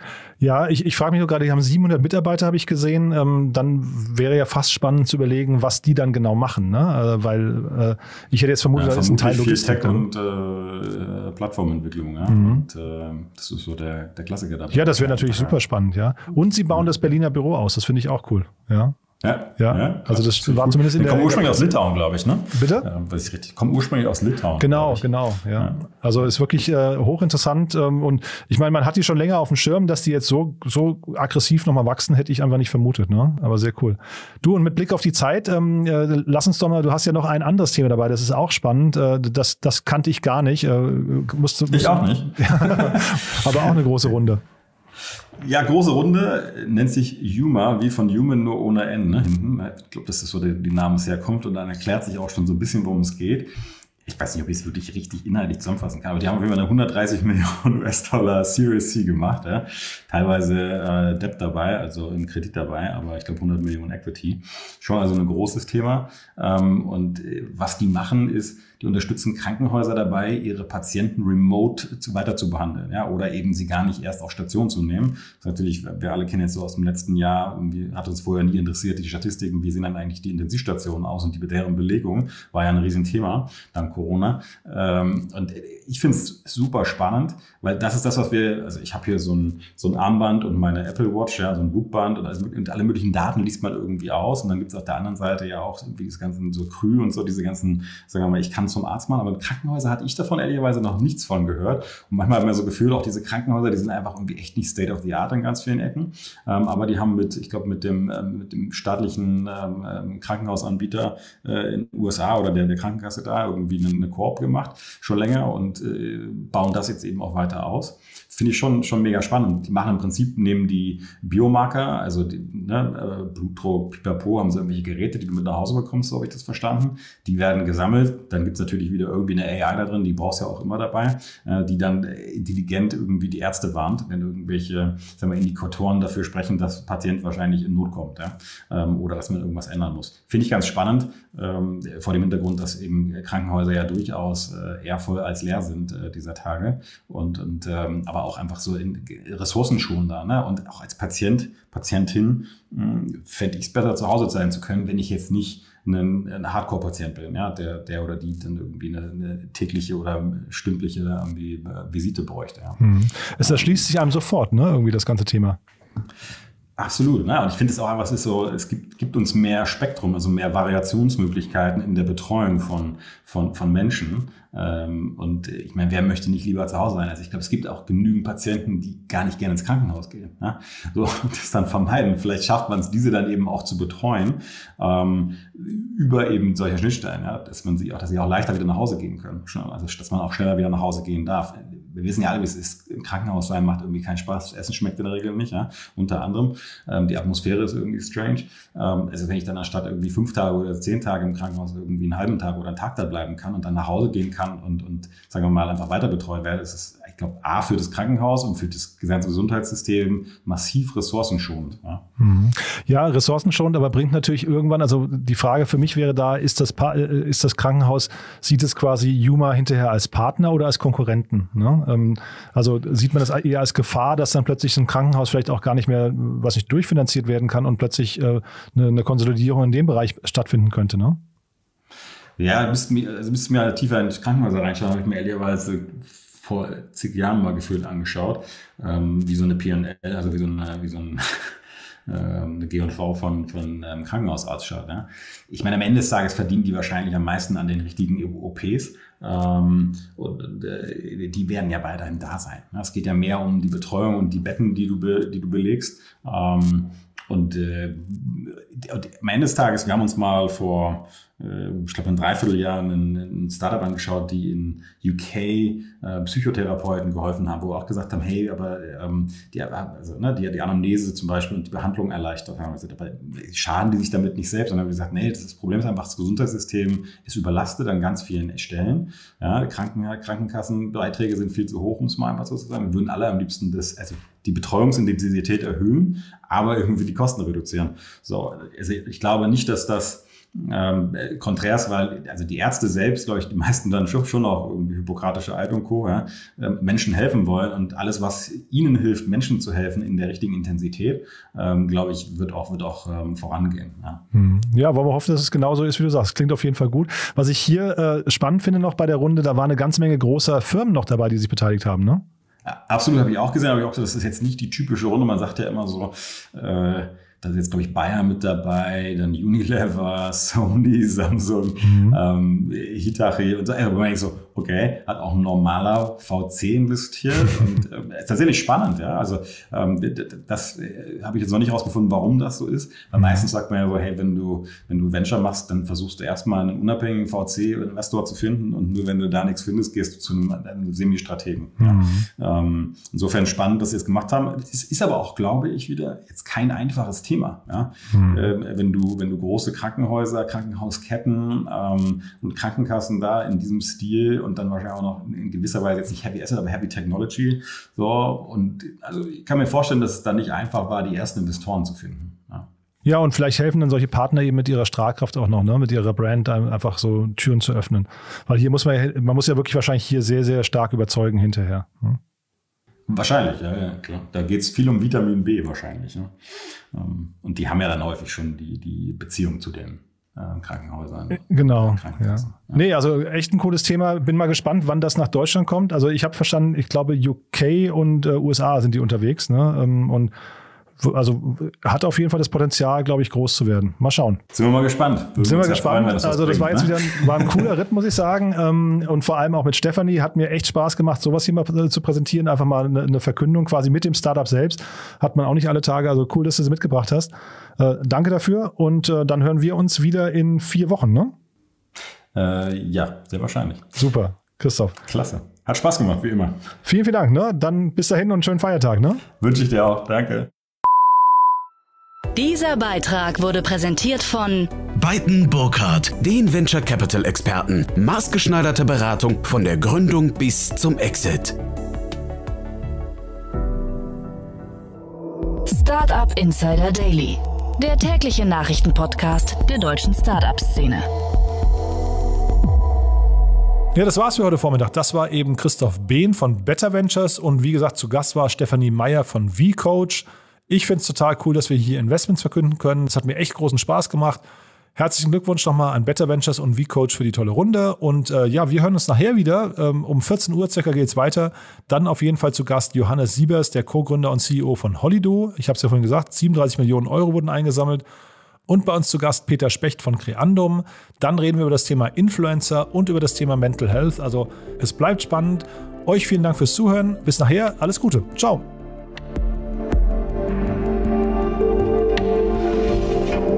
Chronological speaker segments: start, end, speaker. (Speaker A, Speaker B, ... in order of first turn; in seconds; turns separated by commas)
Speaker A: 0.4-10.1, Speaker B: 8.7-15.6, Speaker A: 12.3-12.7, Speaker A: 14.7-19.0, Speaker B: 19.2-25.1, Speaker A: 19.6-21.7, Speaker A: 22.5-22.9, Speaker A: 24.6-44.4, Speaker B: 25.6-25.8, Speaker B: 41.7-43.7, Speaker B: 45.4-53.5, Speaker B: 54.0-162.8, Speaker A: 162.8-165.6, Speaker B: 163.4-163.8, Speaker B: 166.8-212.0, Speaker A: 212.2-231.2, Speaker B: 232.4-241.5, Speaker B: 242.1-304.2, Speaker A: 304.3-312.2, Speaker B: 312.6-362.7, Speaker A: 321.8-322.2, Speaker A: 333.2-333.5, Speaker A: 341.8-342.3, Speaker A: 348.1-348.5, Speaker A: 363.1-372.2, Speaker B: 373.1-376.3, Speaker B: 376.9-382.8, Speaker A: 381.4-390.3, Speaker A: 391.0-394.4, Speaker B: 394.5-397.6, Speaker A: 395.4-411.3, Speaker B: 412.3-413.9, Speaker A: 414.0-415.0, Speaker B: 415.0-416.6, Speaker A: 416.9-419.2, Speaker B: 419.4-420.5, Speaker C: 422.3-424.7, Speaker D: 425.0-431.6, Speaker C: 435.6-441.1, Speaker A: 443.9-454.4, Speaker A: 455.0-468.0, Speaker A: 468.7-478.6